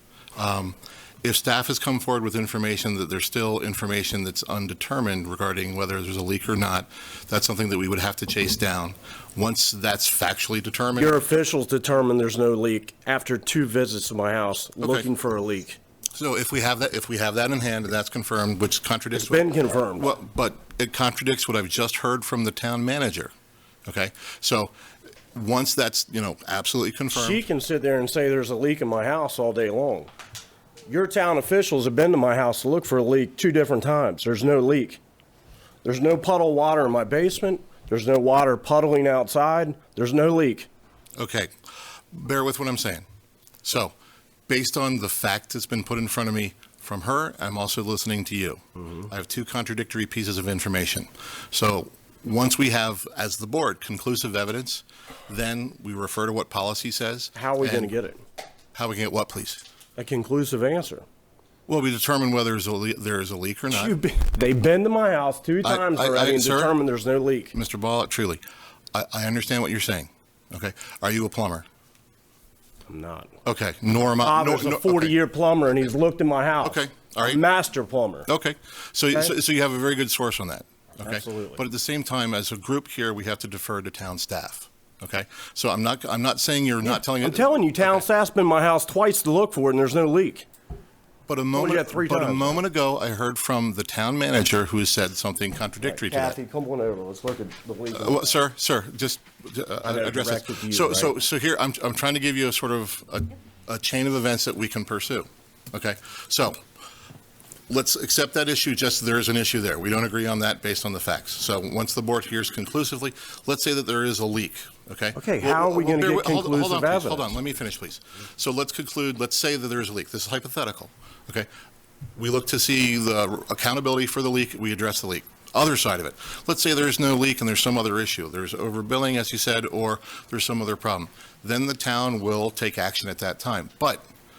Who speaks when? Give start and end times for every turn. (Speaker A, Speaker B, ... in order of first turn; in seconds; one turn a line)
Speaker A: 0.3-11.2
Speaker B: 10.9-15.8
Speaker A: 14.8-15.1
Speaker A: 16.1-23.3
Speaker B: 19.2-20.1
Speaker A: 23.9-24.7
Speaker A: 25.3-27.4
Speaker B: 27.1-30.1
Speaker B: 30.9-35.0
Speaker B: 35.8-40.7
Speaker A: 41.1-41.5
Speaker A: 42.1-43.0
Speaker A: 43.6-43.9
Speaker A: 44.5-57.9
Speaker B: 57.3-58.2
Speaker A: 58.7-59.6
Speaker B: 60.0-61.0
Speaker A: 61.7-64.0
Speaker B: 63.7-67.5
Speaker A: 65.6-66.7
Speaker A: 67.5-68.4
Speaker A: 68.9-71.6
Speaker B: 72.9-73.3
Speaker A: 73.4-75.2
Speaker B: 74.2-78.3
Speaker A: 76.6-77.4
Speaker A: 78.3-88.1
Speaker B: 81.0-81.6
Speaker B: 86.8-90.5
Speaker A: 91.3-96.4
Speaker B: 91.5-92.6
Speaker B: 95.8-98.3
Speaker A: 97.9-106.6
Speaker B: 99.8-101.1
Speaker A: 107.7-121.5
Speaker B: 115.1-117.3
Speaker A: 122.2-134.1